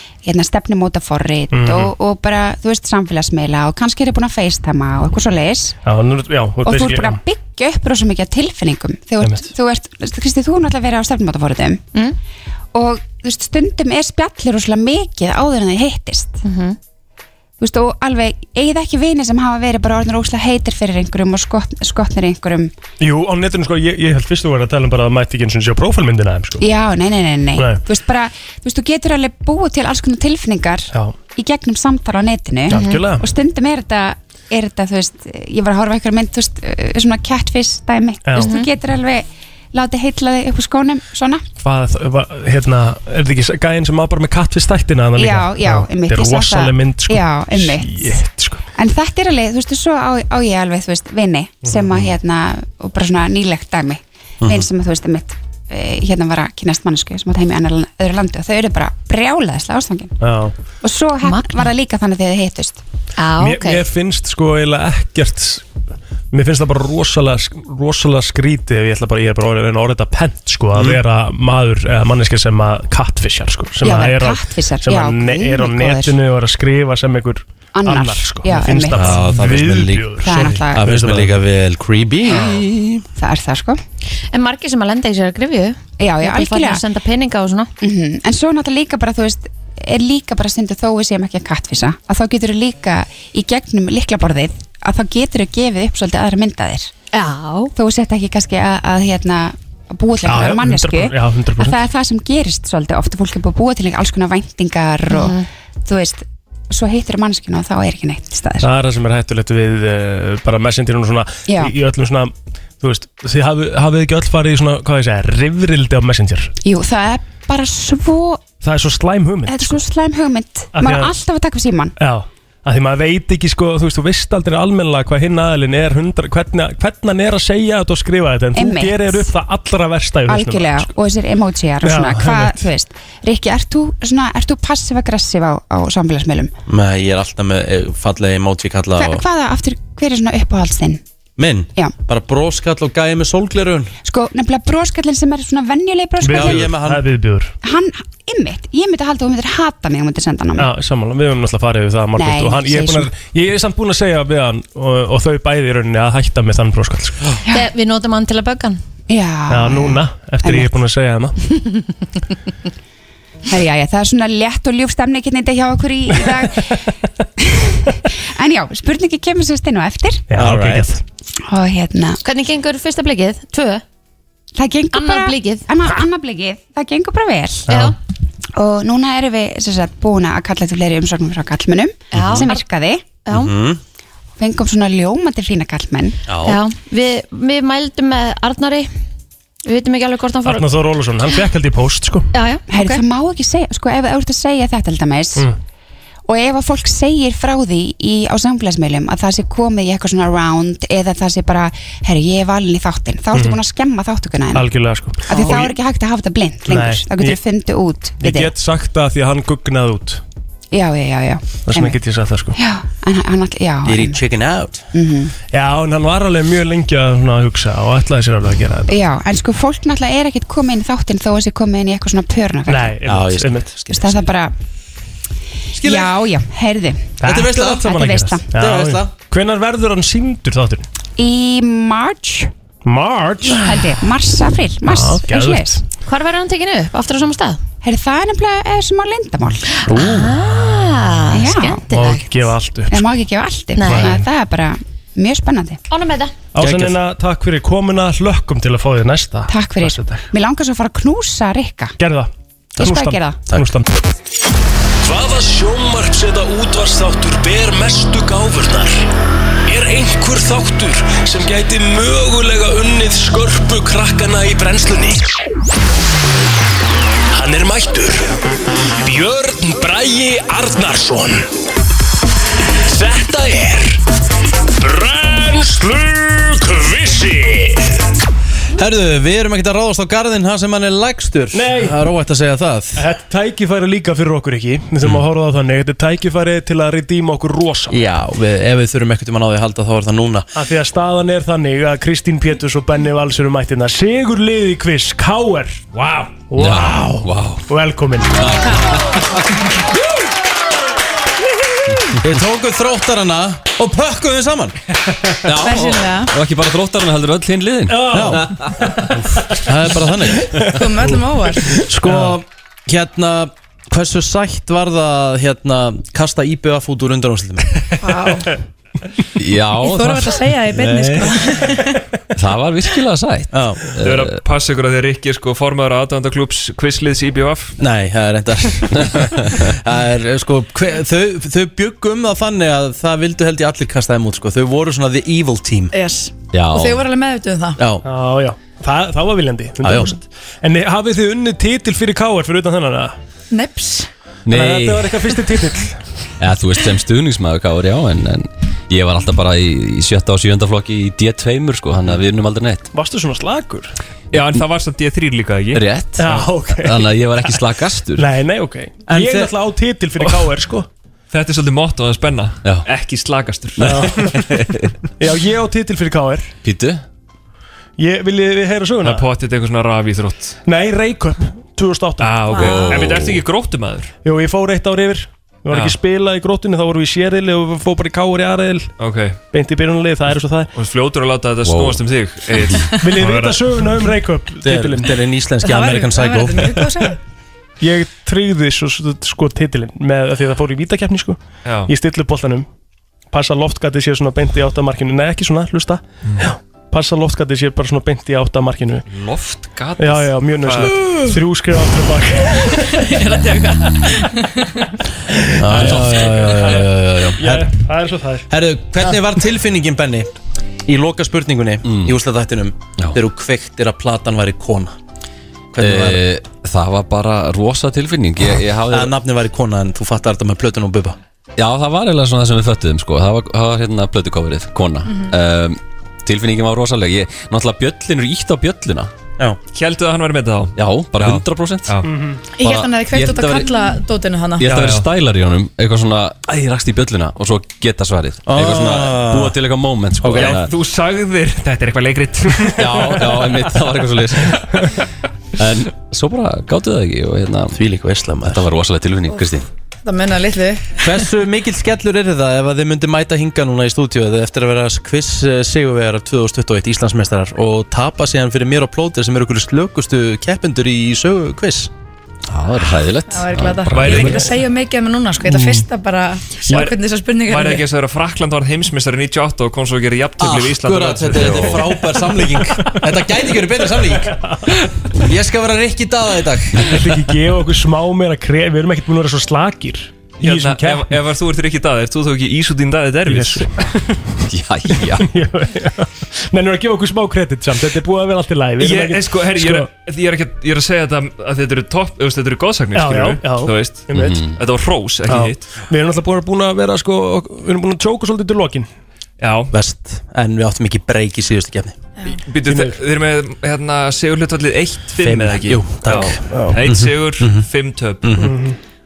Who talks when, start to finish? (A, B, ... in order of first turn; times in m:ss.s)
0:00.2-0:05.8 A
0:01.5-0:01.9 B
0:05.8-0:07.2 B
0:06.6-0:11.8 A
0:09.2-0:09.5 B
0:12.7-0:16.4 A
0:16.4-0:16.8 C
0:17.6-0:22.7 A
0:23.0-0:26.6 B
0:26.6-0:41.4 A
0:27.6-0:27.8 B
0:32.7-0:33.2 B
0:32.7-0:33.0 C
0:38.2-0:38.5 B
0:38.4-0:38.7 C
0:41.6-0:48.6 B
0:45.2-0:48.2 A
0:48.8-1:00.2 A
0:54.4-0:54.7 D
1:00.2-1:00.5 B
1:00.8-1:02.8 A
1:01.2-1:01.7 C
1:03.2-1:03.8 C
1:03.4-1:05.6 B
1:06.3-1:21.4 B
1:10.7-1:11.0 D
1:13.8-1:16.2 A
1:17.7-1:19.2 A
1:18.9-1:23.0 D
1:20.2-1:20.8 A
1:23.2-1:23.8 A
1:24.3-1:27.7 C
1:26.0-1:26.8 A
1:27.8-1:36.9 A
1:37.1-1:37.7 C
1:37.8-1:48.7 A
1:40.2-1:41.8 B
1:45.1-1:45.4 C
1:48.6-1:56.5 B
1:51.5-1:51.7 A
1:56.6-1:58.4 A
1:58.6-1:59.8 B
1:59.4-2:01.9 A
2:00.7-2:01.1 B
2:02.0-2:10.9 B
2:08.5-2:09.3 A
2:10.3-2:16.5 A
2:11.8-2:12.6 B
2:16.7-2:19.2 D
2:18.9-2:21.0 A
2:21.4-2:23.9 D
2:24.0-2:26.6 A
2:26.2-2:27.5 B
2:26.3-2:27.0 D
2:27.6-2:30.7 A
2:30.6-2:37.2 B
2:32.1-2:33.1 A
2:37.5-2:38.8 C
2:39.1-2:40.8 A
2:39.5-2:41.4 B
2:43.5-2:46.8 A
2:47.4-2:50.2 A
2:50.3-2:51.0 B
2:50.3-2:50.9 D
2:51.5-2:52.2 A
2:52.2-2:53.8 C
2:54.6-2:57.7 A
2:54.9-2:55.7 C
2:57.7-2:57.9 B
2:57.7-2:57.9 C
2:58.6-3:03.0 A
3:02.1-3:02.6 C
3:02.2-3:02.4 E
3:03.2-3:03.5 C
3:03.3-3:03.8 D
3:04.4-3:06.2 A
3:06.3-3:06.6 D
3:06.4-3:08.9 C
3:09.6-3:10.6 C
3:10.4-3:12.3 B
3:12.3-3:13.0 C
3:12.7-3:15.5 A
3:16.3-3:24.7 A
3:23.3-3:23.6 B
3:24.5-3:25.7 B
3:25.3-3:28.5 A
3:26.6-3:27.4 B
3:28.2-3:30.2 B
3:30.7-3:32.0 A
3:31.6-3:32.6 B
3:32.6-3:34.2 A
3:33.8-3:34.8 D
3:34.9-3:35.3 A
3:35.5-3:38.9 B
3:38.9-3:43.0 A
3:42.7-3:43.7 B
3:43.0-3:44.3 D
3:43.9-3:44.5 A
3:45.7-3:46.1 D
3:45.8-3:48.5 A
3:47.2-3:50.8 B
3:47.2-3:47.9 D
3:48.5-3:49.1 D
3:51.2-3:52.5 A
3:52.8-3:53.6 B
3:53.4-3:55.8 A
3:54.8-3:55.8 B
3:56.0-3:57.6 C
3:57.8-3:59.6 A
3:59.8-4:02.2 C
3:59.9-4:00.6 B
4:01.3-4:01.8 A
4:01.9-4:03.0 B
4:02.9-4:05.8 A
4:03.7-4:04.1 C
4:03.8-4:04.2 B
4:05.9-4:06.3 C
4:06.5-4:10.3 B
4:06.6-4:06.9 D
4:09.5-4:11.9 A
4:12.0-4:13.9 B
4:12.8-4:13.4 A
4:15.0-4:19.0 F
4:19.7-4:25.3 F
4:27.3-4:28.3 F
4:29.0-4:31.5 F
4:32.8-4:34.0 F
4:34.8-4:37.9 F
4:38.8-4:43.0 D
4:41.5-4:42.0 B
4:43.0-4:48.0 B
4:47.9-4:50.5 D
4:50.5-4:58.4 B
4:55.9-4:56.3 G
4:56.5-4:57.6 E
4:58.3-4:59.4 E
5:02.2-5:04.8 D
5:05.4-5:08.5 E
5:05.6-5:06.3 H
5:07.9-5:09.1 B
5:08.1-5:08.4 D
5:09.6-5:10.5 D
5:10.6-5:11.7 H
5:11.8-5:17.7 D
5:12.0-5:12.4 B
5:18.0-5:18.6 H
5:19.4-5:21.3 E
5:19.8-5:22.0 H
5:22.4-5:24.4 E
5:23.5-5:23.8 D
5:24.0-5:27.8 G
5:27.8-5:35.9 D
5:35.9-5:37.8 H
5:36.5-5:37.0 E
5:37.8-5:38.0 D
5:38.0-5:43.2 B
5:39.8-5:40.1 D
5:43.5-5:44.1 H
5:44.4-5:45.2 E
5:44.5-5:46.0 B
5:46.4-5:52.9 E
5:52.9-5:53.9 B
5:54.3-5:55.8 G
5:54.3-5:54.6 E
5:55.7-5:58.3 E
5:56.2-5:57.1 B
5:58.2-6:00.9 B
5:59.1-5:59.5 D
6:01.3-6:04.2 G
6:02.6-6:02.9 E
6:03.8-6:04.3 B
6:03.8-6:04.9 E
6:05.2-6:06.5 B
6:06.6-6:07.0 E
6:08.0-6:09.2 B
6:09.0-6:10.6 G
6:10.6-6:12.6 B
6:12.2-6:14.1 G
6:12.5-6:13.0 H
6:12.6-6:13.4 E
6:14.2-6:18.9 B
6:15.7-6:16.0 G
6:19.0-6:19.4 G
6:19.5-6:20.7 B
6:20.7-6:23.6 G
6:21.6-6:22.9 E
6:23.0-6:25.1 B
6:24.6-6:26.8 D
6:25.6-6:27.2 H
6:27.8-6:32.6 B
6:31.6-6:31.9 G
6:33.3-6:39.0 B
6:39.1-6:41.0 G
6:40.0-6:43.0 B
6:41.0-6:41.3 H
6:42.7-6:44.9 H
6:43.7-6:44.1 E
6:45.3-6:48.5 B
6:45.6-6:47.7 D
6:45.7-6:47.3 E
6:48.5-6:50.3 D
6:50.8-6:55.0 D
6:51.8-6:52.1 E
6:55.7-6:56.2 D
6:55.8-6:59.1 E
6:58.9-7:01.2 D
7:01.6-7:09.1 E
7:05.1-7:05.3 H
7:09.7-7:12.1 G
7:10.8-7:12.0 E
7:12.0-7:12.4 B
7:12.6-7:14.7 H
7:12.6-7:13.8 E
7:14.6-7:20.7 E
7:14.7-7:15.1 G
7:18.4-7:19.5 D
7:20.2-7:20.6 D
7:20.4-7:23.2 G
7:22.8-7:24.8 E
7:25.6-7:27.8 E
7:27.8-7:28.6 D
7:28.4-7:29.6 E
7:29.3-7:31.0 H
7:31.0-7:41.9 D
7:42.5-7:44.6 E
7:42.9-7:47.8 H
7:43.9-7:44.3 G
7:46.7-7:51.8 G
7:50.4-7:54.3 D
7:54.3-7:54.6 B
7:55.2-7:57.1 D
7:56.8-8:01.2 B
8:00.4-8:03.7 G
8:03.2-8:03.9 B
8:04.4-8:05.3 E
8:05.2-8:09.9 B
8:08.8-8:15.7 G
8:12.9-8:14.4 B
8:14.1-8:14.6 E
8:15.3-8:18.9 B
8:19.4-8:19.7 G
8:19.7-8:22.0 D
8:22.5-8:28.3 G
8:22.6-8:23.0 B
8:25.2-8:27.7 D
8:26.5-8:26.8 B
8:28.2-8:28.5 D
8:28.4-8:28.8 B